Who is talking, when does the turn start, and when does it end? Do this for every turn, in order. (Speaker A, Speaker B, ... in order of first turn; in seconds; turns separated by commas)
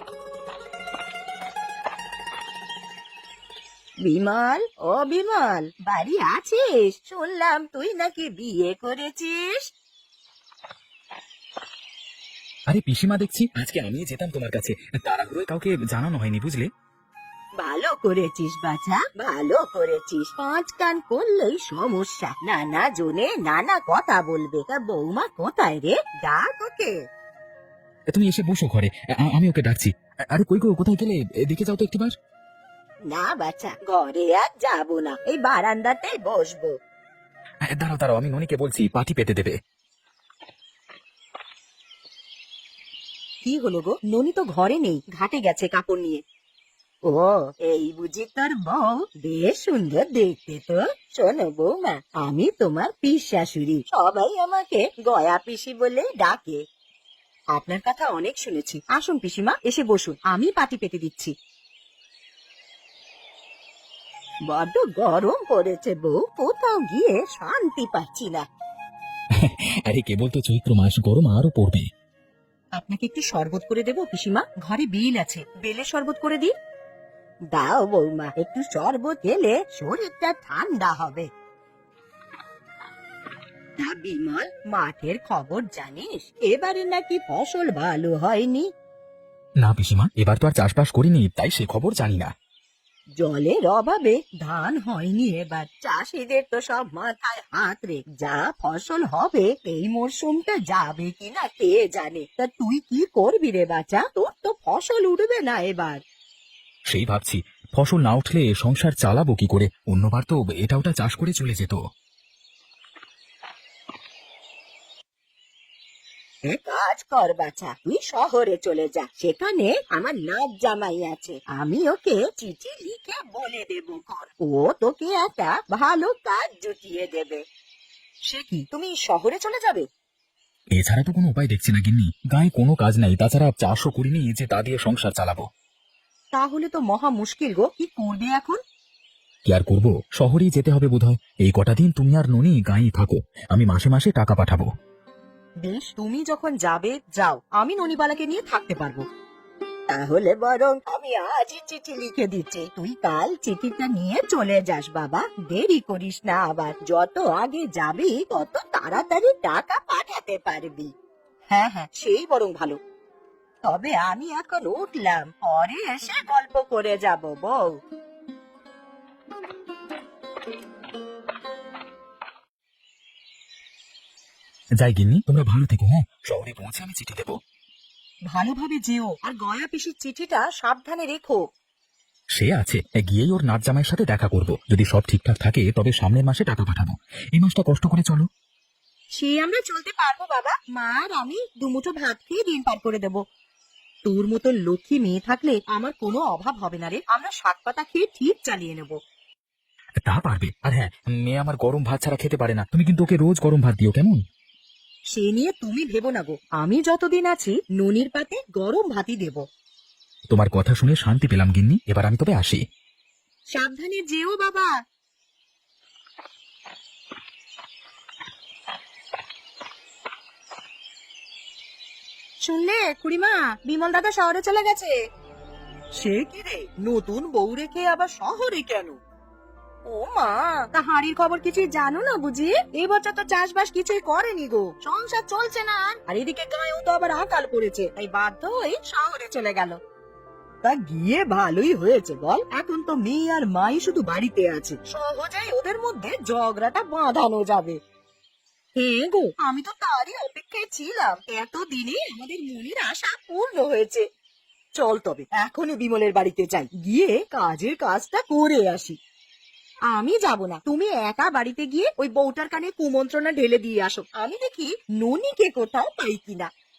Speaker A: 4.0-9.7, Speaker B: 12.7-16.7, Speaker A: 17.6-27.0, Speaker B: 28.1-32.1, Speaker A: 33.1-36.7, Speaker B: 37.7-39.5, Speaker A: 43.4-46.2, Speaker A: 47.1-56.6, Speaker A: 57.5-61.3, Speaker A: 64.5-68.4, Speaker B: 69.3-71.8, Speaker A: 72.7-76.5, Speaker A: 77.5-81.3, Speaker A: 83.8-88.7, Speaker B: 89.6-92.3, Speaker A: 93.2-106.0, Speaker B: 106.9-111.8, Speaker A: 116.4-127.4, Speaker A: 128.2-129.8, Speaker B: 130.7-135.4, Speaker A: 136.3-138.6, Speaker B: 139.4-144.7, Speaker A: 145.6-149.0, Speaker A: 149.9-160.9, Speaker A: 161.5-162.8, Speaker A: 163.6-167.8, Speaker B: 174.8-177.4, Speaker A: 178.3-181.5, Speaker B: 182.3-188.3, Speaker A: 189.1-193.2, Speaker A: 194.0-199.0, Speaker B: 200.0-204.2, Speaker A: 205.1-209.4, Speaker B: 210.3-212.6, Speaker A: 213.5-214.7, Speaker A: 222.4-225.0, Speaker A: 225.9-229.0, Speaker A: 229.9-239.8, Speaker A: 240.6-247.8, Speaker A: 248.8-254.0, Speaker A: 254.8-259.0, Speaker A: 259.9-266.5